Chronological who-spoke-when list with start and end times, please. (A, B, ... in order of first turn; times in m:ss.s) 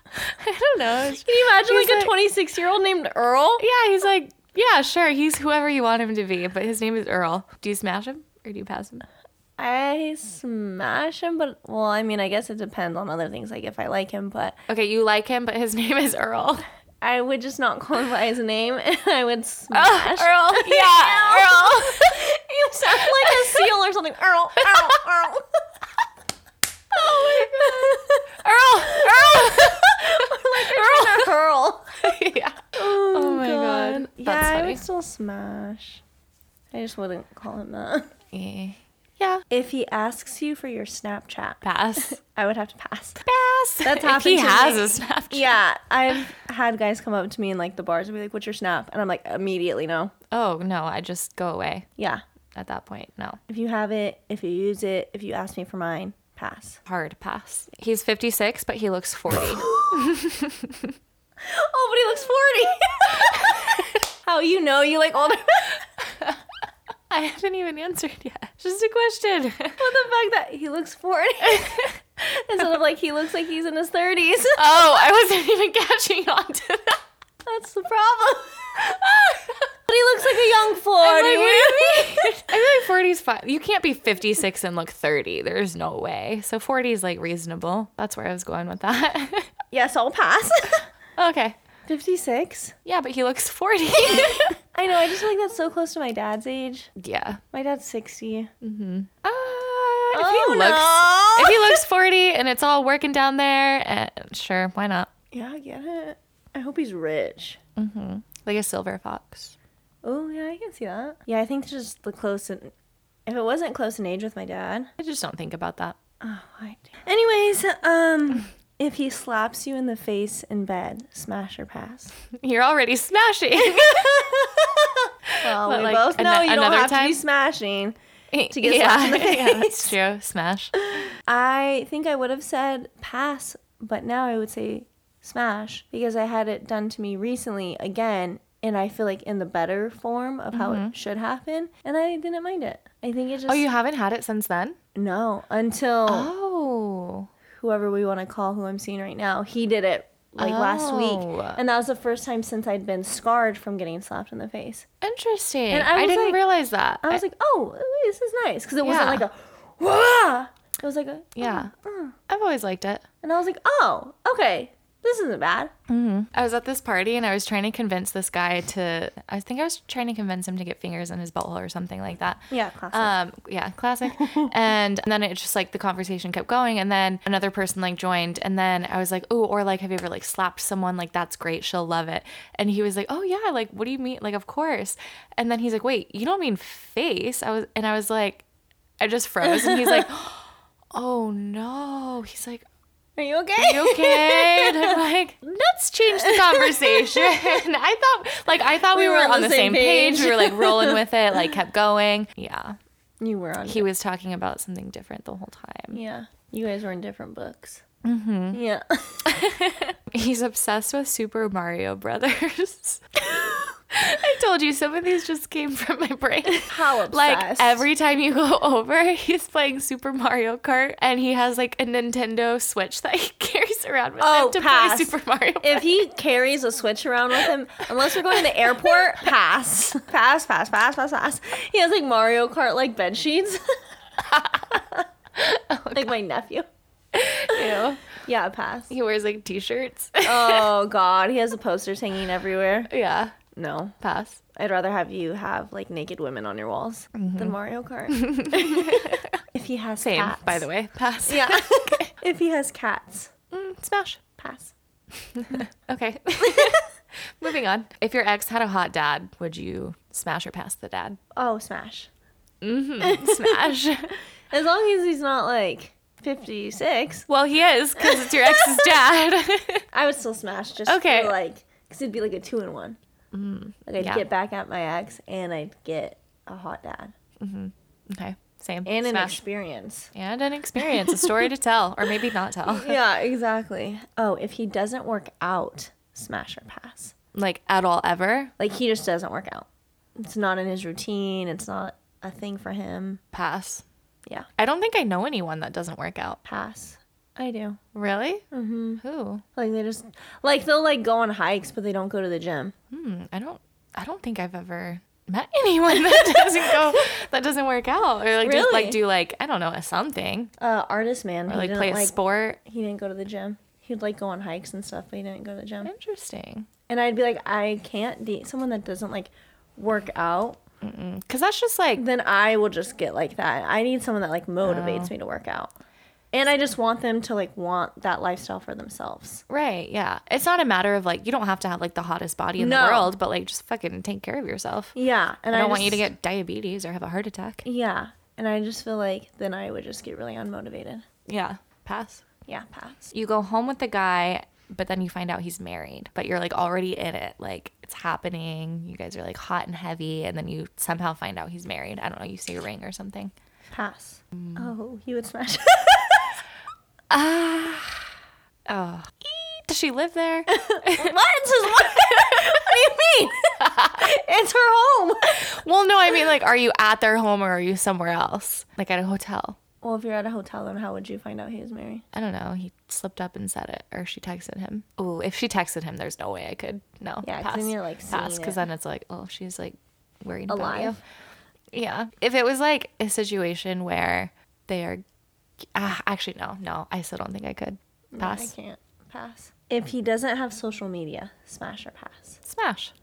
0:00.2-0:02.1 A
0:01.1-0:03.6 B
0:03.6-0:09.0 A
0:09.6-0:14.6 B
0:14.7-0:16.6 A
0:17.0-0:25.6 B
0:19.7-0:22.2 A
0:22.8-0:23.7 A
0:24.6-0:25.0 A
0:26.9-0:32.1 B
0:27.0-0:31.3 A
0:32.0-0:34.8 A
0:32.7-0:36.0 B
0:36.7-0:38.1 B
0:38.3-0:39.4 A
0:39.5-0:43.2 B
0:41.6-0:42.2 A
0:43.2-0:45.6 A
0:43.8-0:50.1 B
0:50.3-0:51.9 A
0:52.0-0:52.2 B
0:52.5-0:53.4 A
0:53.5-0:56.8 B
0:56.8-1:01.0 A
0:59.3-1:00.2 B
1:01.4-1:05.8 B
1:03.3-1:03.8 A
1:07.1-1:09.8 A
1:09.8-1:14.7 B
1:11.4-1:11.9 A
1:14.6-1:17.0 A
1:17.4-1:19.0 B
1:18.8-1:19.6 A
1:19.9-1:22.5 B
1:21.0-1:29.5 A
1:29.7-1:30.8 B
1:31.2-1:31.6 A
1:31.9-1:32.7 B
1:32.8-1:34.6 A
1:34.0-1:36.9 B
1:37.0-1:37.4 A
1:37.5-1:38.5 B
1:38.6-1:45.1 A
1:40.1-1:41.8 B
1:45.3-1:47.6 B
1:47.8-1:49.6 A
1:50.0-1:52.7 B
1:53.3-1:54.9 B
1:55.0-1:56.0 A
1:56.2-2:02.1 B
2:02.3-2:04.1 A
2:03.6-2:08.0 B
2:05.3-2:07.2 A
2:08.3-2:10.7 A
2:08.5-2:09.9 B
2:10.9-2:23.6 B
2:20.5-2:20.9 A
2:23.5-2:24.8 A
2:24.9-2:26.3 B
2:26.1-2:27.3 A
2:27.5-2:34.8 B
2:30.4-2:31.6 A
2:35.0-2:37.2 A
2:35.7-2:36.4 B
2:37.0-2:42.2 B
2:38.8-2:39.2 A
2:41.4-2:41.7 A
2:42.3-2:43.0 A
2:43.2-2:45.7 B
2:45.9-3:08.4 A
2:52.5-2:53.1 B
2:54.2-2:54.5 B
3:09.0-3:12.6 A
3:09.4-3:10.1 B
3:13.2-3:15.0 B
3:13.6-3:22.8 A
3:16.0-3:17.6 B
3:18.8-3:21.0 B
3:23.2-3:23.9 B
3:23.6-3:26.0 A
3:25.9-3:27.8 B
3:28.0-3:28.6 A
3:28.5-3:29.4 B
3:29.2-3:33.0 A
3:33.3-3:33.7 B
3:33.9-3:45.9 A
3:36.5-3:37.8 B
3:44.2-3:53.6 B
3:48.1-3:48.9 A
3:54.3-3:54.6 A
3:54.4-3:55.0 B
3:55.4-3:56.1 A
3:55.9-3:56.6 B
3:57.1-3:58.0 A
3:57.5-3:58.9 B
3:58.9-4:00.7 A
4:00.2-4:02.9 B
4:02.9-4:03.3 A
4:03.5-4:04.0 B
4:04.0-4:04.4 A
4:04.5-4:10.7 B
4:07.2-4:07.6 A
4:08.1-4:09.4 A
4:10.0-4:12.1 A
4:11.2-4:13.3 B
4:13.5-4:14.2 A
4:14.4-4:14.7 B
4:15.2-4:21.2 A
4:16.5-4:16.8 B
4:21.3-4:22.1 B
4:22.6-4:24.1 A
4:23.0-4:23.8 B
4:24.5-4:27.3 B
4:27.3-4:29.8 A
4:28.0-4:29.0 B
4:29.9-4:33.0 B
4:30.8-4:31.3 A
4:33.3-4:34.2 A
4:33.9-4:37.1 B
4:37.4-4:39.4 A
4:38.8-4:40.1 B
4:40.1-4:43.0 A
4:40.8-4:41.4 B
4:42.7-4:47.1 B
4:47.3-4:48.5 A
4:48.6-4:53.2 B
4:53.3-4:53.8 A
4:54.6-4:56.4 A
4:56.4-4:57.8 B
4:57.9-4:58.4 A
4:58.5-4:59.0 B
4:59.0-4:59.4 A
4:59.6-5:02.7 B
5:02.9-5:10.5 A
5:06.3-5:06.7 B
5:08.4-5:09.0 B
5:10.6-5:15.9 B
5:11.5-5:12.6 A
5:15.8-5:16.7 A
5:16.9-5:20.6 B
5:20.8-5:22.0 A
5:22.0-5:25.7 B
5:24.6-5:25.1 A
5:26.3-5:29.4 B
5:29.5-5:34.9 A
5:32.6-5:33.1 B
5:34.9-5:36.1 B
5:35.5-5:37.6 A
5:37.6-5:41.0 B
5:41.3-5:42.2 A
5:42.5-5:43.1 B
5:43.1-5:53.3 A
5:53.7-5:56.4 B
5:54.3-5:54.7 A
5:57.1-5:58.1 A
5:58.6-6:01.2 A
6:00.5-6:05.5 B
6:01.8-6:02.4 A
6:03.6-6:04.1 A
6:05.3-6:09.6 A
6:09.8-6:12.0 B
6:12.1-6:21.0 A
6:17.2-6:18.6 B
6:20.5-6:21.0 B
6:21.7-6:25.0 A
6:25.6-6:28.5 A
6:28.1-6:32.4 B
6:32.4-6:32.9 A